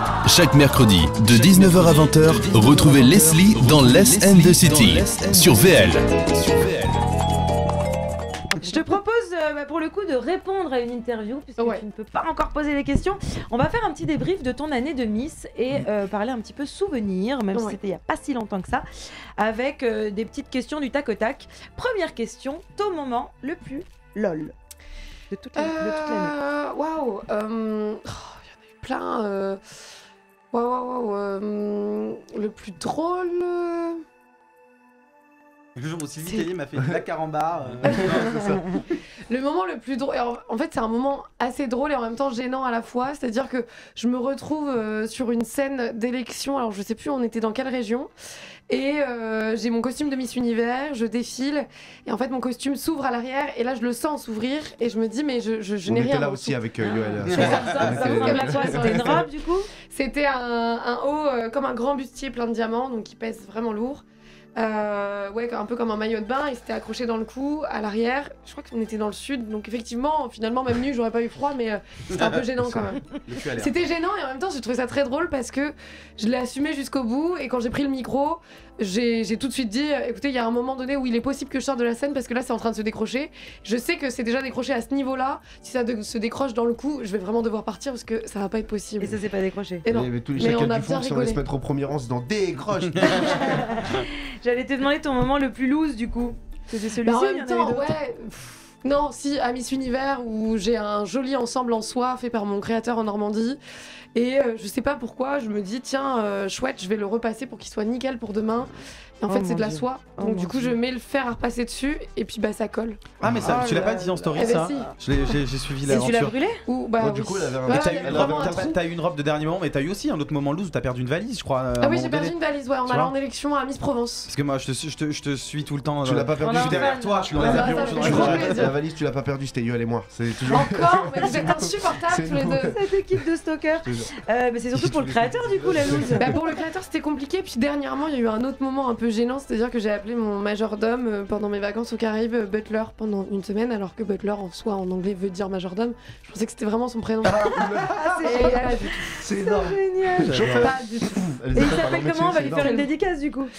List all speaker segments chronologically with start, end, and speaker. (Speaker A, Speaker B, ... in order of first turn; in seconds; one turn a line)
Speaker A: 0.2-7.0
Speaker B: 4.6-5.0
Speaker C: 8.6-18.8
Speaker C: 19.4-24.5
Speaker C: 25.3-26.3
Speaker D: 25.6-29.6
Speaker D: 30.5-34.0
Speaker B: 35.8-38.6
Speaker D: 37.9-38.6
Speaker E: 38.0-38.5
Speaker D: 39.3-48.1
Speaker D: 48.7-56.6
Speaker E: 55.8-59.2
Speaker C: 57.3-59.7
Speaker B: 57.3-58.0
Speaker D: 57.3-59.3
Speaker D: 59.9-64.0
Speaker D: 64.6-89.2
Speaker B: 72.1-73.8
Speaker C: 89.0-89.8
Speaker D: 89.8-91.4
Speaker E: 89.9-93.7
Speaker B: 92.9-93.2
Speaker C: 93.1-97.9
Speaker D: 97.0-103.6
Speaker D: 104.1-114.9
Speaker C: 109.3-110.8
Speaker B: 113.2-116.4
Speaker C: 113.4-114.3
Speaker C: 115.8-116.6
Speaker D: 116.6-118.8
Speaker E: 117.0-118.7
Speaker B: 117.7-122.3
Speaker D: 121.8-124.3
Speaker B: 122.8-123.1
Speaker B: 124.3-128.7
Speaker E: 126.0-132.8
Speaker C: 126.4-128.7
Speaker D: 127.4-128.8
Speaker D: 130.5-132.7
Speaker C: 132.7-136.3
Speaker E: 133.8-134.1
Speaker E: 134.8-136.4
Speaker D: 136.2-149.1
Speaker E: 147.2-152.9
Speaker C: 147.5-150.8
Speaker B: 150.2-150.7
Speaker D: 150.4-151.3
Speaker C: 151.5-153.5